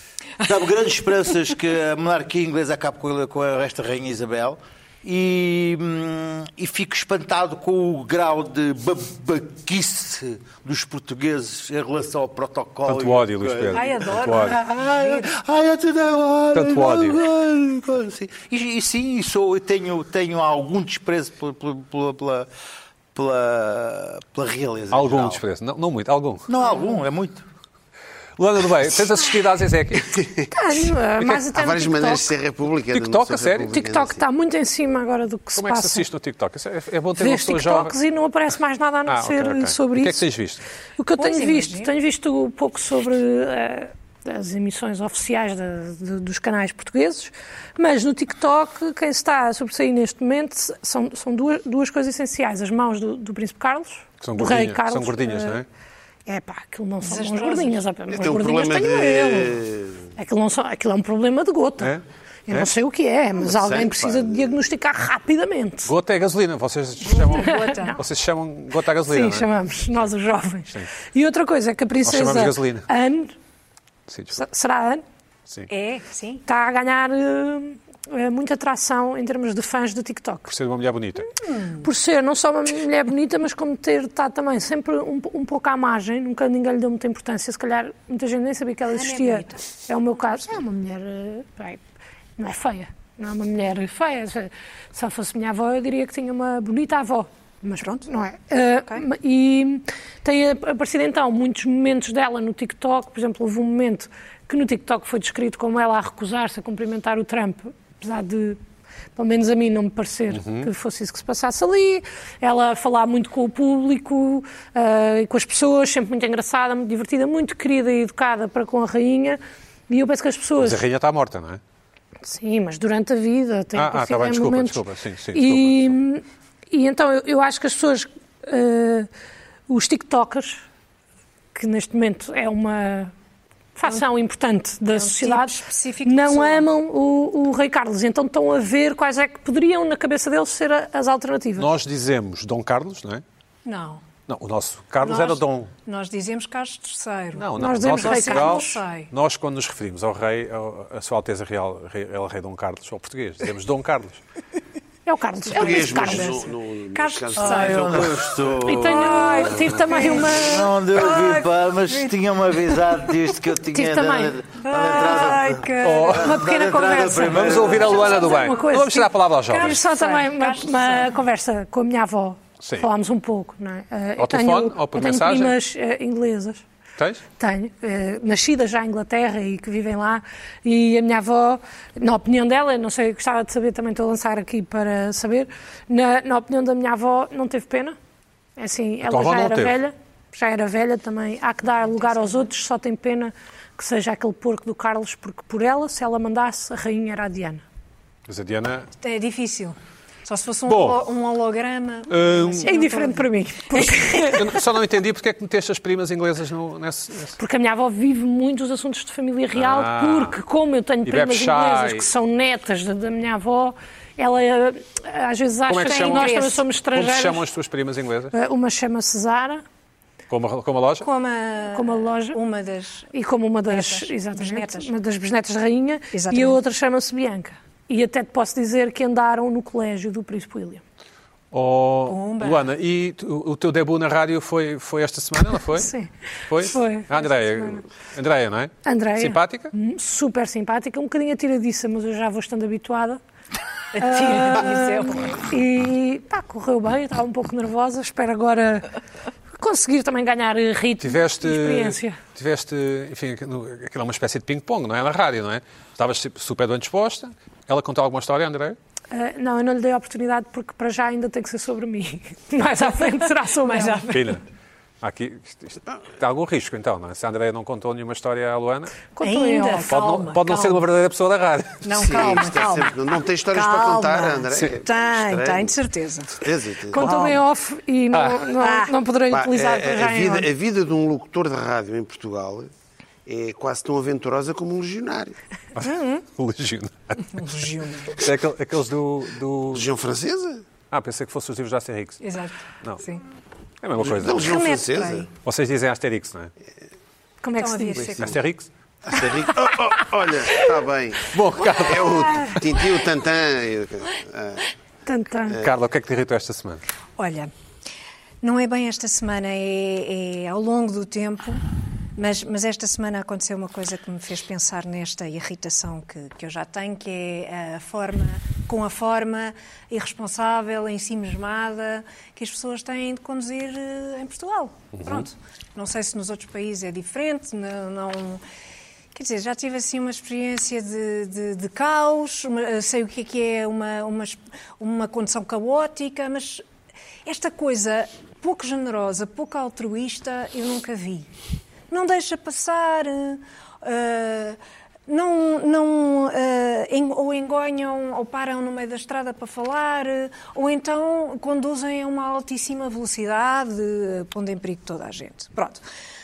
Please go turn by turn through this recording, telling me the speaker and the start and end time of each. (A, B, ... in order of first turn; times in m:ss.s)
0:00.4-0:22.5 A
0:12.9-0:14.6 B
0:13.7-0:15.3 C
0:16.5-0:17.2 B
0:23.1-0:25.4 A
0:24.9-0:26.5 B
0:26.5-0:27.4 A
0:28.4-0:30.2 B
0:30.1-0:30.4 D
0:30.5-0:32.3 E
0:31.5-0:34.2 D
0:32.9-0:33.7 B
0:33.7-0:36.1 E
0:35.6-0:37.9 B
0:37.2-0:40.2 E
0:39.1-0:40.6 B
0:41.0-0:55.6 E
0:41.2-0:41.9 C
0:54.2-0:55.7 B
0:56.3-0:59.6 E
0:57.0-0:57.8 C
0:58.1-1:00.1 D
1:00.2-1:02.0 E
1:01.8-1:02.7 B
1:02.5-1:05.9 E
1:03.4-1:04.5 D
1:05.9-1:09.5 B
1:07.0-1:08.0 C
1:07.4-1:08.0 E
1:09.0-1:13.3 E
1:12.0-1:12.9 B
1:14.1-1:14.4 B
1:14.4-1:15.0 E
1:15.7-1:16.4 C
1:16.5-1:20.5 E
1:20.5-1:21.3 B
1:21.4-1:21.9 C
1:21.8-1:31.8 E
1:28.9-1:29.7 C
1:32.4-1:48.6 E
1:49.2-2:00.8 E
1:50.3-1:50.7 B
2:00.6-2:01.6 B
2:02.2-2:04.8 E
2:03.8-2:06.0 B
2:05.3-2:09.1 E
2:09.7-2:10.6 E
2:11.6-2:13.1 E
2:13.8-2:21.7 E
2:14.9-2:16.7 C
2:21.6-2:23.2 B
2:23.6-2:24.0 C
2:24.3-2:25.7 B
2:25.0-2:29.1 C
2:27.4-2:34.2 B
2:27.6-2:28.7 E
2:35.1-2:36.4 E
2:35.5-2:38.2 C
2:35.5-2:38.4 D
2:37.4-2:39.6 A
2:38.6-2:40.7 E
2:38.8-2:43.3 C
2:40.2-2:48.1 A
2:43.7-2:44.4 E
2:44.6-2:48.5 C
2:45.8-2:46.4 B
2:47.0-2:56.6 E
2:47.3-2:49.8 B
2:49.5-2:51.2 C
2:54.2-2:55.6 B
2:57.0-2:57.2 B
2:57.4-3:08.0 E
3:08.6-3:17.6 E
3:09.1-3:09.8 B
3:11.9-3:12.5 C
3:18.3-3:18.9 B
3:19.0-3:24.3 C
3:20.7-3:21.0 B
3:22.1-3:22.7 B
3:22.6-3:24.6 E
3:24.3-3:27.4 B
3:27.4-3:37.4 E
3:29.5-3:30.4 B
3:31.0-3:32.1 B
3:35.7-3:36.4 B
3:35.9-3:36.6 C
3:36.9-3:38.3 B
3:38.3-3:39.6 E
3:40.3-3:41.1 B
3:41.0-3:43.1 C
3:41.7-3:42.4 E
3:43.1-3:50.8 E
3:43.7-3:44.9 C
3:46.1-3:46.6 C
3:51.5-3:55.9 B
3:52.1-3:52.7 C
3:55.8-3:56.1 E
3:56.5-3:59.7 B
3:56.6-3:57.8 E
3:58.8-4:03.2 E
4:03.9-4:05.4 C
4:04.0-4:08.9 E
4:09.6-4:12.2 E
4:11.0-4:18.8 B
4:19.1-4:24.1 E
4:22.8-4:24.3 C
4:24.1-4:24.4 B
4:25.0-4:29.0 B
4:29.1-4:30.0 E
4:29.2-4:30.8 C
4:29.9-4:32.2 B
4:31.8-4:33.0 C
4:32.0-4:35.8 D
4:33.5-4:37.4 C
4:36.4-4:37.1 D
4:36.9-4:40.5 E
4:38.1-4:38.4 B
4:38.6-4:38.9 C
4:39.3-4:42.7 D
4:43.3-4:45.4 D
4:45.8-4:47.4 B
4:45.8-4:46.2 C
4:47.3-4:48.2 C
4:48.2-4:49.9 B
4:49.7-4:50.6 D
4:50.9-4:52.2 B
4:52.2-4:53.2 C
4:53.8-4:54.6 B
4:54.0-4:55.3 D
4:54.3-4:55.3 C
4:55.4-4:56.5 B
4:57.4-4:58.1 E
4:57.6-4:58.4 C
4:58.1-4:58.7 B
4:59.1-5:04.6 D
5:01.2-5:02.4 B
5:02.0-5:02.6 C
5:05.1-5:05.6 E
5:05.6-5:06.8 B
5:07.2-5:07.5 C
5:08.4-5:28.4 C
5:29.1-5:36.6 C
5:37.2-5:41.3 C
5:41.9-5:55.8 C